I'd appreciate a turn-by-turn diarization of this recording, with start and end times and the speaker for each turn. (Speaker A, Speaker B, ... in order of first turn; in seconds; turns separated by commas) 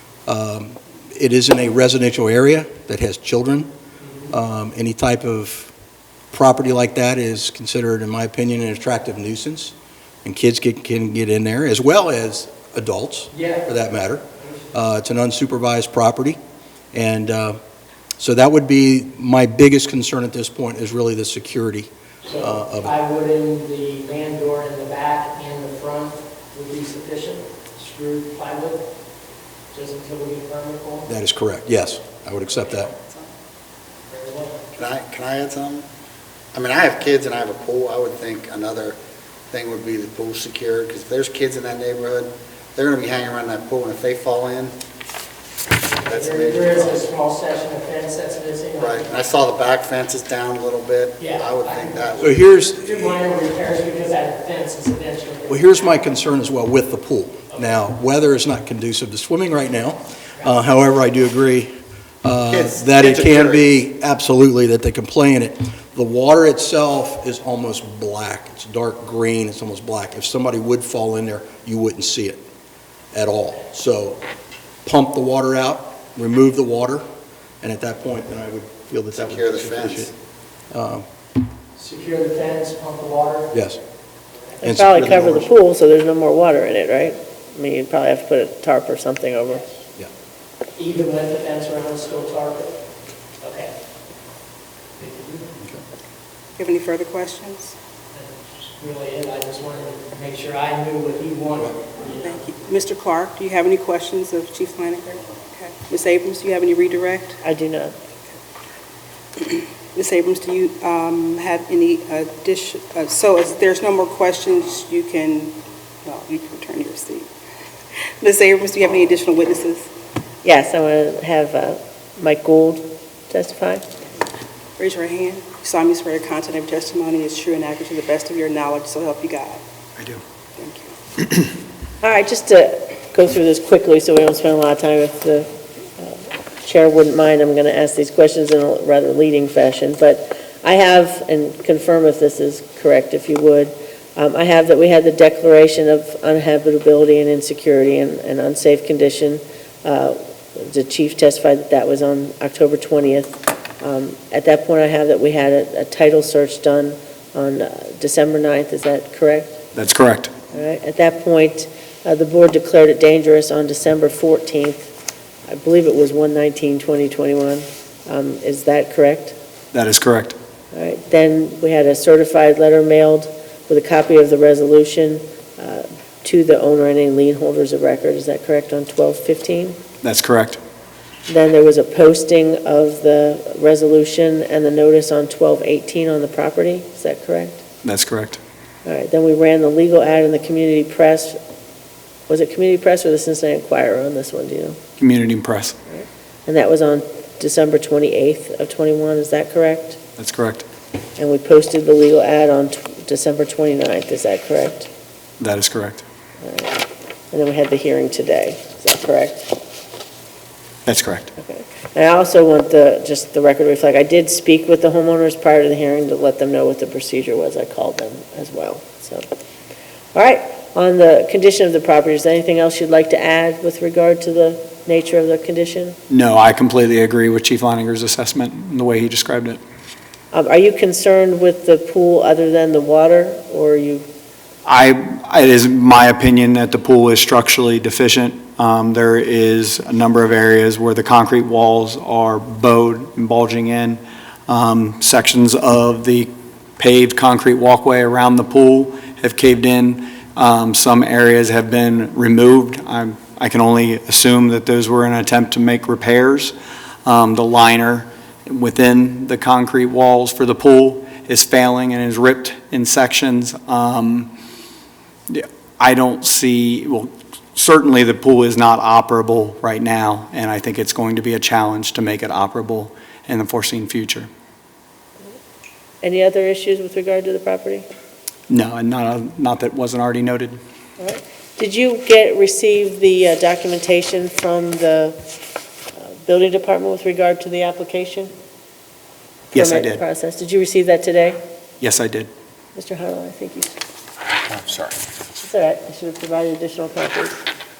Speaker A: 0.3-3.7, Speaker A: 4.3-5.7, Speaker A: 6.3-9.7, Speaker A: 10.2-16.4, Speaker B: 13.3-13.7, Speaker A: 16.9-17.6, Speaker A: 18.2-22.9, Speaker B: 22.3-28.9, Speaker B: 29.7-31.1, Speaker A: 31.1-32.9, Speaker B: 34.1-34.7, Speaker C: 34.7-35.9, Speaker C: 36.5-39.0, Speaker C: 39.5-44.8, Speaker B: 45.9-49.1, Speaker C: 46.0-47.0, Speaker C: 48.8-52.4, Speaker B: 51.2-52.1, Speaker A: 52.2-53.2, Speaker B: 52.7-56.0, Speaker A: 55.5-72.4, Speaker C: 62.5-63.6, Speaker A: 73.1-74.2, Speaker A: 74.8-77.0, Speaker A: 77.6-80.1, Speaker C: 79.1-80.1, Speaker A: 80.7-81.1, Speaker B: 81.8-83.5, Speaker A: 83.5-83.8, Speaker D: 84.6-89.6, Speaker A: 84.6-85.5, Speaker B: 90.8-92.7, Speaker B: 93.4-93.7, Speaker B: 95.0-95.5, Speaker E: 96.6-97.8, Speaker B: 98.1-102.5, Speaker E: 102.1-107.4, Speaker D: 107.4-108.0, Speaker E: 109.4-117.3, Speaker E: 118.2-119.9, Speaker D: 120.4-123.8, Speaker E: 124.8-129.6, Speaker F: 130.0-130.2, Speaker E: 130.6-130.9, Speaker D: 132.0-135.5, Speaker D: 136.0-159.6, Speaker F: 159.7-160.3, Speaker D: 160.5-164.9, Speaker D: 165.5-169.3, Speaker F: 169.7-170.3, Speaker D: 170.7-179.8, Speaker F: 180.0-180.6, Speaker D: 181.3-187.6, Speaker F: 187.8-188.4, Speaker D: 188.8-191.4, Speaker D: 192.3-194.8, Speaker F: 195.0-195.8, Speaker D: 195.9-200.0, Speaker F: 200.2-200.7, Speaker D: 201.2-204.9, Speaker F: 205.4-206.0, Speaker D: 206.4-206.8, Speaker D: 207.3-209.5, Speaker F: 210.8-211.3, Speaker D: 211.4-219.2, Speaker D: 220.1-226.0, Speaker F: 226.1-229.6, Speaker D: 230.3-234.1, Speaker F: 234.6-256.5, Speaker F: 257.1-264.3, Speaker F: 265.3-274.3, Speaker D: 276.0-277.9, Speaker F: 278.5-280.6, Speaker D: 281.0-285.2, Speaker D: 286.0-288.3, Speaker F: 289.5-290.0, Speaker D: 289.5-291.4, Speaker F: 291.8-292.3, Speaker D: 292.8-293.7, Speaker F: 294.5-294.9, Speaker D: 295.4-297.4